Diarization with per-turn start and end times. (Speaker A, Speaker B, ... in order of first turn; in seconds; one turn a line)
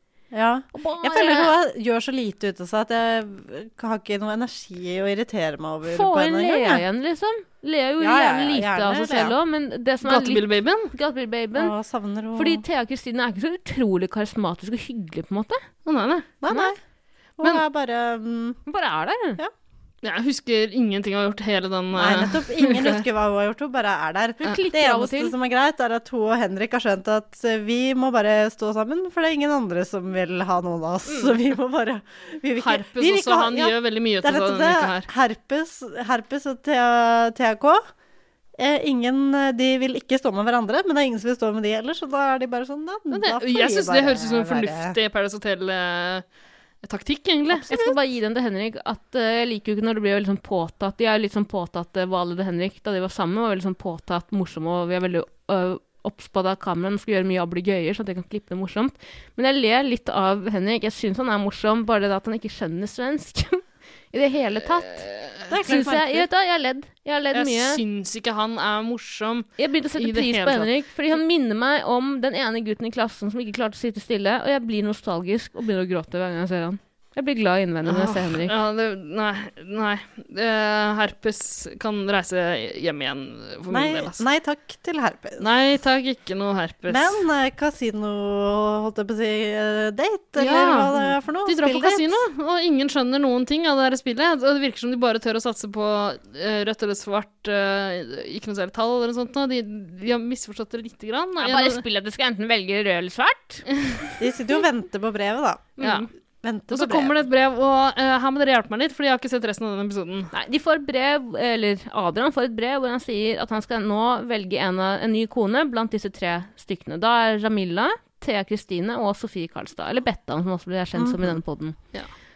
Speaker A: 0.3-6.8
Speaker B: 0.7-1.5
Speaker B: 5.9-11.7
Speaker A: 8.0-9.3
Speaker C: 10.0-10.9
Speaker A: 11.5-12.6
Speaker B: 12.3-15.6
Speaker C: 15.8-16.3
Speaker A: 16.4-16.8
Speaker A: 17.4-18.6
Speaker B: 18.7-19.4
Speaker C: 20.0-23.0
Speaker A: 21.9-37.8
Speaker B: 24.4-25.3
Speaker B: 31.1-31.3
Speaker C: 32.6-35.1
Speaker A: 38.6-45.0
Speaker C: 43.1-46.2
Speaker C: 46.8-47.7
Speaker A: 47.5-47.9
Speaker B: 47.7-65.0
Speaker C: 64.9-65.4
Speaker A: 65.5-66.3
Speaker B: 65.6-67.8
Speaker C: 67.3-71.1
Speaker B: 69.6-78.5
Speaker C: 77.9-84.2
Speaker A: 83.7-85.4
Speaker C: 85.4-87.2
Speaker A: 86.9-92.2
Speaker C: 90.4-101.8
Speaker B: 101.4-103.6
Speaker A: 104.2-105.8
Speaker B: 105.8-106.1
Speaker C: 105.8-106.0
Speaker A: 106.4-107.1
Speaker C: 106.7-110.3
Speaker B: 110.3-121.8
Speaker A: 121.0-121.4